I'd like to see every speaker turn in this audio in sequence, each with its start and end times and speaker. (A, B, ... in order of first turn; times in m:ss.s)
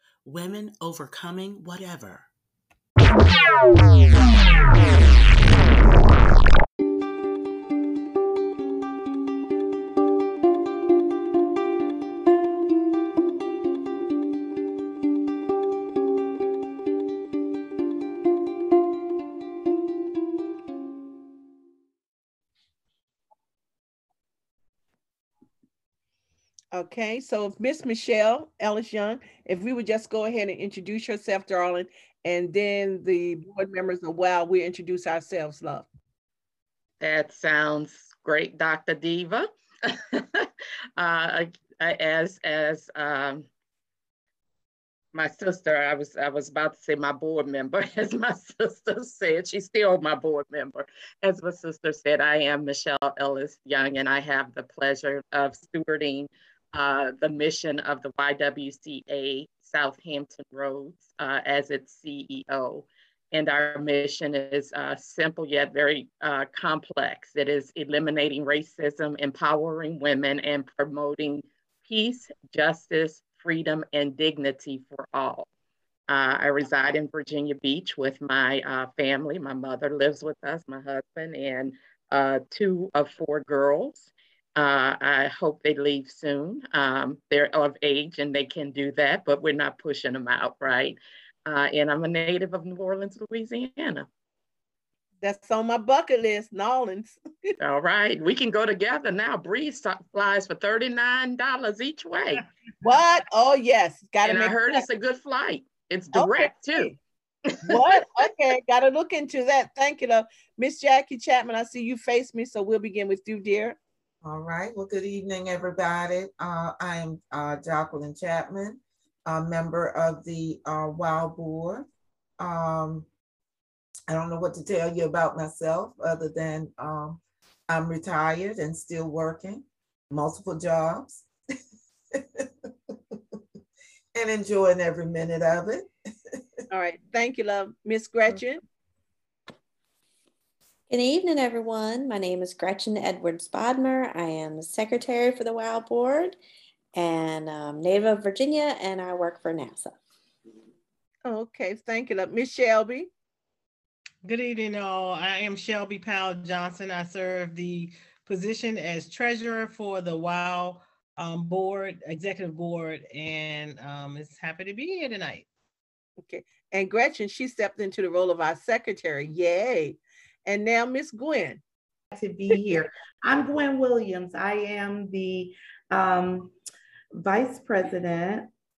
0:00.2-0:02.3 A
0:26.7-0:35.9 B
0:37.0-0:43.5 C
0:45.1-1:15.5 C
1:16.1-1:34.1 C
1:35.2-1:37.2 B
1:37.6-1:42.4 C
1:42.8-1:44.8 B
1:44.2-1:46.9 C
1:46.1-1:47.0 B
1:47.5-1:47.8 C
1:47.6-1:53.8 B
1:54.2-2:01.9 D
2:02.4-2:03.1 D
2:04.1-2:11.3 D
2:12.1-2:12.4 D
2:14.1-2:15.9 D
2:16.7-2:18.6 B
2:20.9-2:26.4 E
2:26.9-2:30.0 E
2:31.2-2:33.1 B
2:34.2-2:45.4 F
2:46.2-2:51.6 B
2:52.1-2:56.5 G
2:53.4-2:55.4 D
2:56.0-2:56.3 D
2:57.2-2:58.5 G
2:57.3-2:58.3 D